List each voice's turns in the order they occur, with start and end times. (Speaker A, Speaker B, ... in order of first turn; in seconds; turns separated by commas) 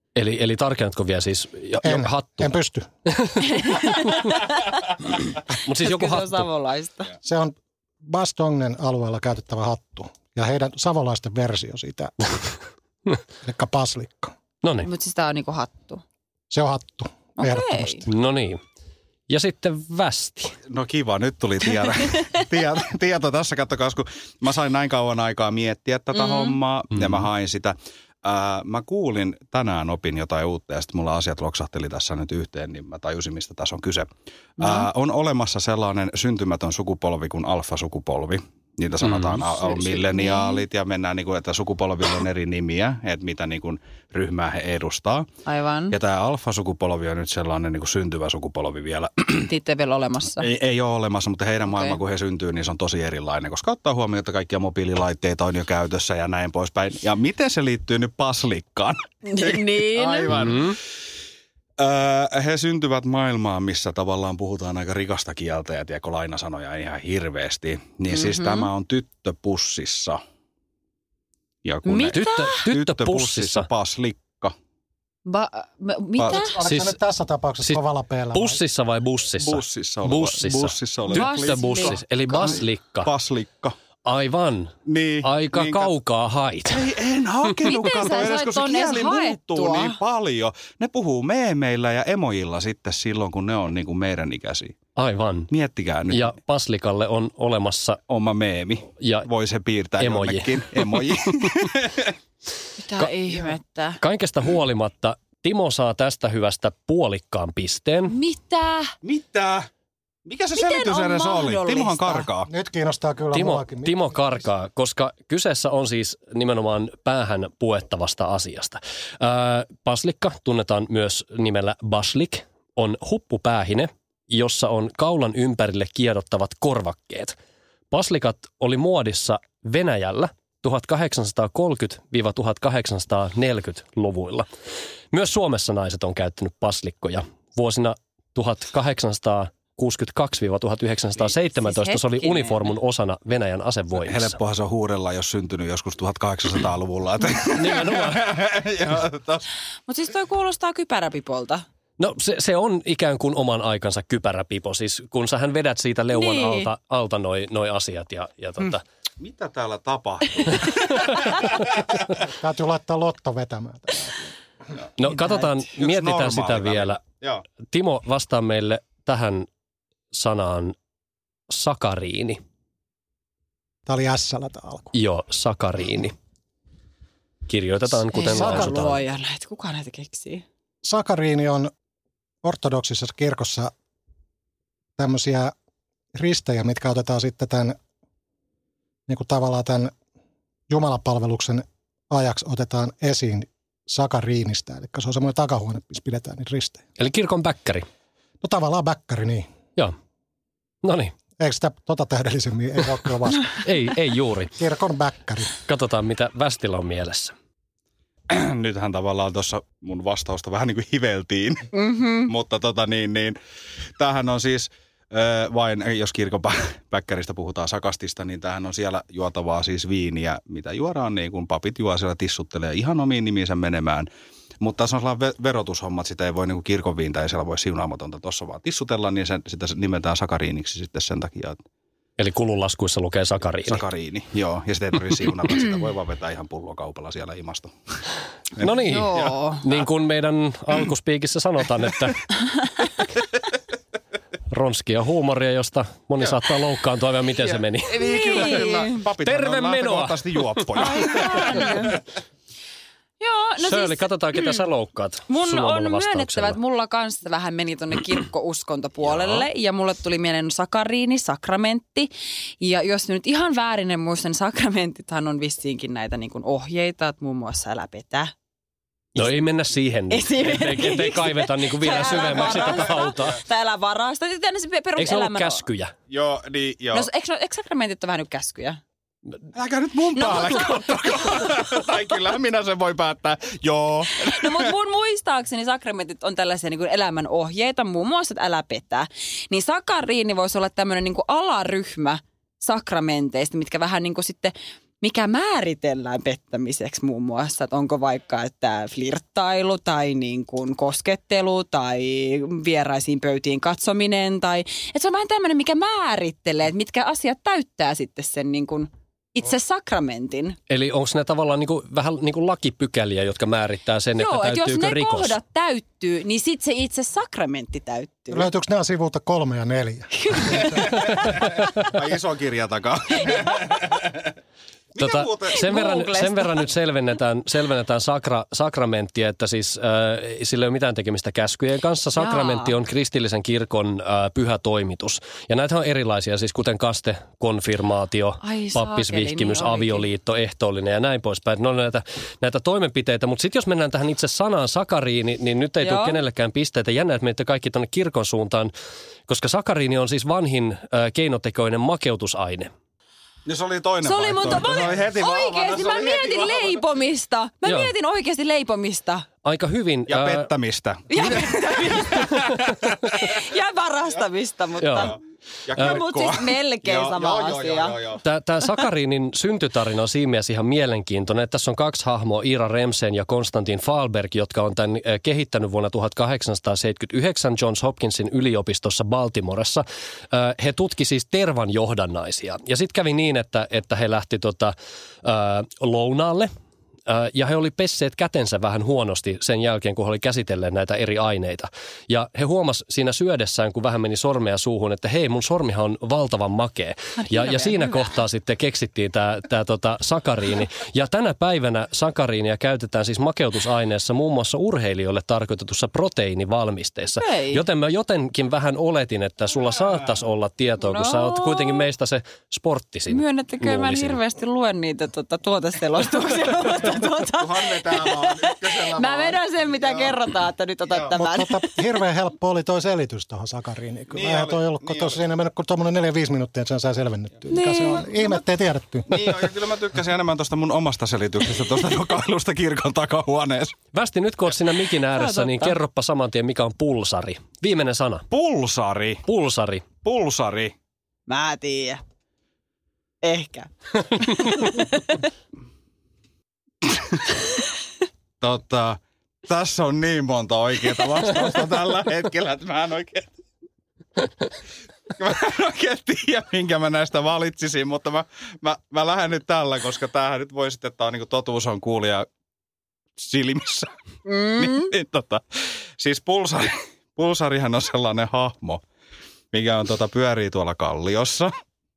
Speaker A: 0.1-2.5, Speaker B: 1.8-2.9, Speaker A: 3.1-3.6, Speaker C: 3.5-4.5, Speaker A: 5.6-6.5, Speaker C: 5.8-7.1, Speaker B: 7.2-12.3, Speaker B: 13.4-14.3, Speaker A: 14.6-14.9, Speaker C: 14.8-16.0, Speaker B: 16.5-18.1, Speaker C: 17.4-18.0, Speaker A: 18.1-18.6, Speaker A: 19.3-20.6, Speaker D: 20.7-34.1, Speaker C: 26.1-26.6, Speaker A: 26.9-27.2, Speaker D: 34.6-45.3, Speaker C: 34.6-34.9, Speaker A: 39.0-39.4, Speaker C: 39.6-40.6, Speaker C: 45.5-46.0, Speaker D: 45.9-49.5, Speaker C: 49.4-50.5, Speaker D: 50.4-60.8, Speaker C: 51.7-52.0, Speaker C: 59.3-60.3, Speaker A: 60.3-60.8, Speaker D: 61.8-70.2, Speaker C: 68.1-68.7, Speaker D: 71.6-74.5, Speaker C: 71.8-72.6, Speaker A: 72.1-73.7, Speaker C: 75.2-76.6, Speaker B: 76.2-78.6, Speaker A: 76.6-77.0, Speaker A: 78.3-83.1, Speaker D: 79.4-83.7, Speaker C: 81.1-82.5, Speaker A: 84.0-86.8, Speaker D: 84.8-85.9, Speaker D: 86.7-94.8, Speaker C: 87.6-90.0, Speaker A: 95.0-95.5, Speaker D: 95.5-96.3, Speaker A: 96.1-98.0, Speaker D: 98.1-102.1, Speaker A: 99.0-99.3, Speaker A: 100.0-101.0, Speaker C: 102.8-104.0, Speaker A: 104.0-108.2, Speaker C: 108.1-108.9, Speaker D: 109.0-109.7, Speaker D: 110.2-112.5, Speaker C: 110.5-112.3, Speaker B: 112.5-114.4, Speaker A: 113.3-127.3, Speaker A: 127.9-134.5, Speaker A: 135.1-144.3, Speaker C: 141.2-142.7, Speaker D: 144.0-149.4, Speaker A: 147.5-148.3, Speaker C: 149.9-151.6, Speaker A: 152.0-158.8, Speaker C: 156.1-156.7, Speaker D: 159.2-161.7, Speaker B: 162.3-164.3, Speaker A: 165.0-167.0, Speaker D: 165.8-167.4, Speaker A: 167.7-169.5, Speaker A: 170.1-170.7, Speaker A: 171.5-172.4, Speaker B: 173.8-174.9, Speaker A: 174.9-176.1, Speaker A: 177.5-179.0, Speaker C: 178.1-180.4, Speaker B: 178.3-178.8, Speaker B: 180.8-181.7, Speaker B: 182.4-183.7, Speaker B: 185.0-185.5, Speaker B: 186.1-187.8, Speaker B: 189.1-189.9, Speaker B: 190.7-196.8, Speaker A: 197.0-197.8, Speaker B: 198.4-199.4, Speaker A: 200.8-201.1, Speaker B: 201.4-203.6, Speaker A: 203.6-204.5, Speaker B: 204.6-205.5, Speaker A: 205.7-207.3, Speaker D: 208.3-211.7, Speaker C: 211.7-212.3, Speaker D: 212.2-213.4, Speaker D: 214.0-224.1, Speaker D: 224.6-231.6, Speaker A: 232.2-233.8, Speaker D: 233.7-237.7, Speaker D: 238.6-239.3, Speaker A: 238.6-242.2, Speaker C: 238.7-239.7, Speaker A: 244.5-248.4, Speaker D: 247.4-252.0, Speaker C: 248.0-249.0, Speaker A: 249.2-251.8, Speaker C: 250.8-252.0, Speaker C: 253.2-254.6, Speaker A: 253.6-256.6, Speaker C: 255.3-262.1, Speaker C: 262.6-268.3, Speaker A: 269.1-273.4, Speaker C: 270.1-275.6, Speaker D: 271.9-273.2, Speaker A: 275.0-275.9, Speaker D: 276.1-277.1, Speaker C: 276.9-278.8, Speaker D: 279.5-284.7, Speaker C: 280.1-281.7, Speaker C: 284.2-310.6, Speaker A: 310.7-315.3, Speaker C: 314.2-318.5, Speaker B: 318.3-320.8, Speaker C: 320.2-320.9, Speaker D: 320.6-324.3, Speaker C: 323.2-323.6, Speaker D: 324.9-325.7, Speaker A: 325.0-348.7, Speaker C: 325.5-326.7, Speaker C: 332.1-332.7, Speaker C: 338.4-340.1, Speaker C: 345.8-346.2, Speaker A: 349.3-352.7, Speaker D: 353.4-356.8, Speaker C: 354.0-359.3, Speaker A: 357.6-357.9, Speaker A: 359.4-360.5, Speaker D: 360.1-363.3, Speaker C: 361.1-362.5, Speaker A: 362.3-362.8, Speaker C: 363.0-365.2, Speaker A: 364.8-365.1, Speaker D: 365.7-368.2, Speaker C: 365.8-367.9, Speaker A: 368.2-386.5, Speaker A: 387.1-414.2, Speaker C: 397.2-398.0, Speaker C: 407.2-407.6, Speaker C: 410.8-411.8, Speaker C: 413.1-421.6, Speaker D: 416.7-420.1, Speaker D: 420.8-421.1, Speaker B: 421.1-429.4, Speaker D: 424.1-425.2, Speaker C: 427.5-428.4, Speaker D: 429.1-433.8, Speaker A: 433.9-438.2, Speaker C: 435.1-435.8, Speaker D: 438.3-439.2, Speaker A: 439.2-439.8, Speaker D: 440.0-440.7, Speaker C: 441.3-442.0, Speaker C: 443.2-445.2, Speaker D: 446.9-447.2, Speaker D: 448.4-453.3, Speaker D: 455.2-462.3, Speaker D: 463.2-463.9, Speaker C: 464.2-464.9, Speaker D: 464.5-465.4, Speaker D: 466.0-468.8, Speaker D: 469.5-471.5